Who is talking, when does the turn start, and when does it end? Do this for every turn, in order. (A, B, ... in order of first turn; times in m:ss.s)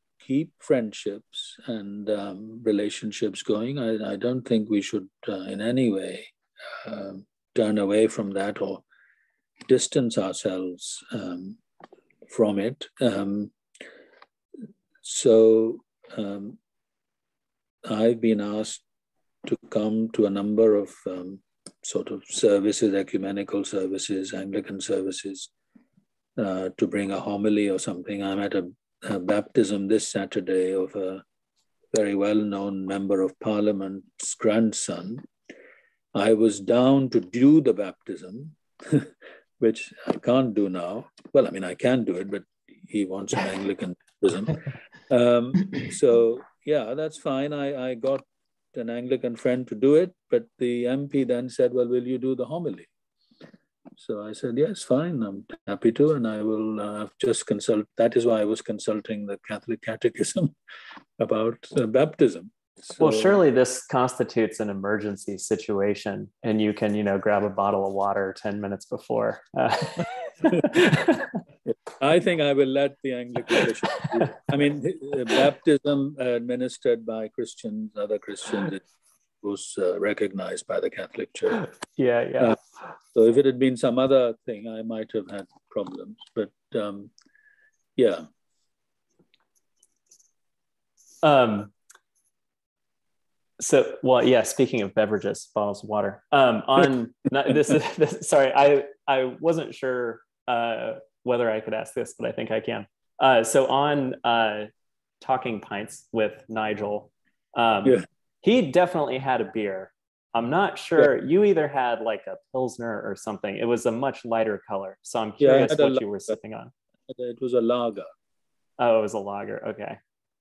0:00.2-0:08.8 A
0:09.6-0:11.6 A
0:12.3-0:13.5 A
0:15.0-0:16.6 A
0:17.8-0:18.8 A
0:19.4-0:25.5 A
0:26.4-0:31.2 A
0:31.9-0:35.2 A
0:36.1-0:52.9 A
0:54.0-1:00.5 A
1:01.2-1:03.4 A
1:03.0-1:11.3 B
1:11.6-1:18.8 A
1:19.4-1:21.6 A
1:21.6-1:22.6 B
1:23.1-1:27.1 A
1:28.0-1:28.2 A
1:31.2-1:31.7 B
1:33.6-1:44.7 B
1:45.2-1:56.7 B
1:55.4-1:56.3 A
1:57.1-1:58.1 A
1:58.8-2:00.0 B